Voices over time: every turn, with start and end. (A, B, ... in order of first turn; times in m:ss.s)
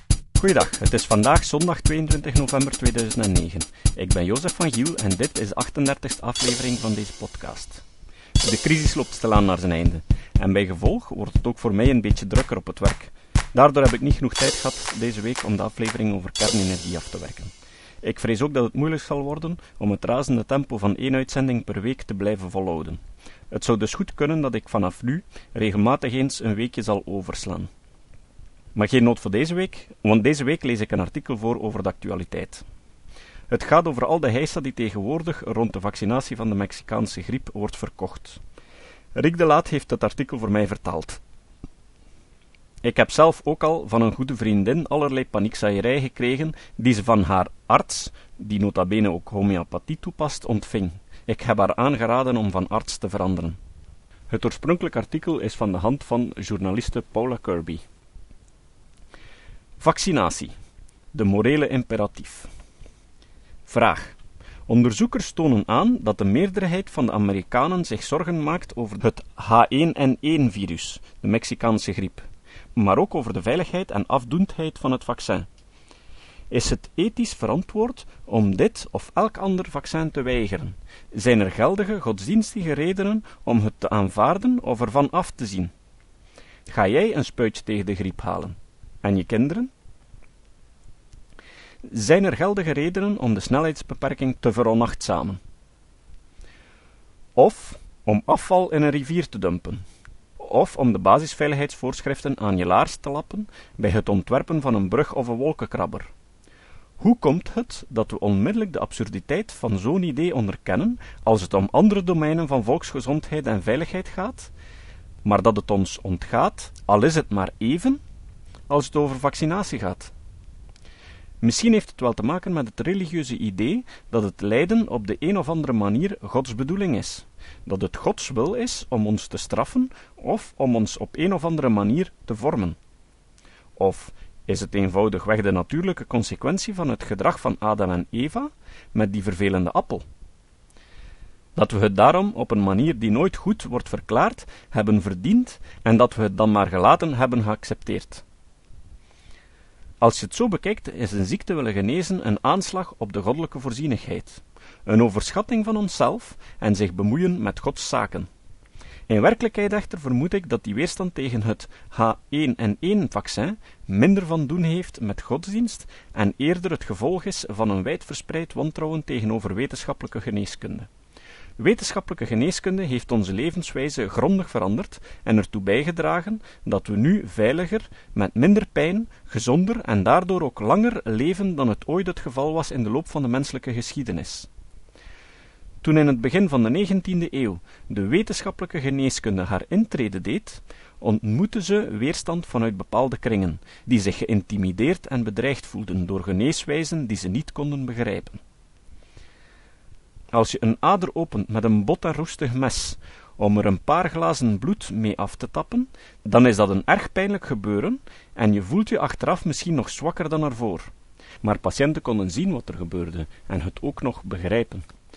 0:00.4-0:07.8 A
0:08.4-0:23.0 A
0:23.5-0:27.7 A
0:28.7-0:32.6 A
0:33.5-0:38.4 A
0:39.1-0:41.2 A
0:42.8-0:53.6 A
0:54.3-0:57.8 A
0:59.8-1:00.5 A
1:01.1-1:02.5 A
1:03.6-1:04.2 A
1:04.7-1:15.5 A
1:16.5-1:25.7 A
1:26.7-1:29.7 A
1:31.9-1:35.4 A
1:37.4-1:39.8 A
1:40.4-1:46.1 A
1:47.0-1:54.5 A
1:55.2-1:58.0 A
1:58.7-2:00.1 A
2:01.4-2:12.8 A
2:13.8-2:20.0 A
2:21.6-2:28.2 A
2:30.0-2:38.3 A
2:39.1-2:50.9 A
2:51.6-3:04.5 A
3:05.8-3:18.4 A
3:20.3-3:34.8 A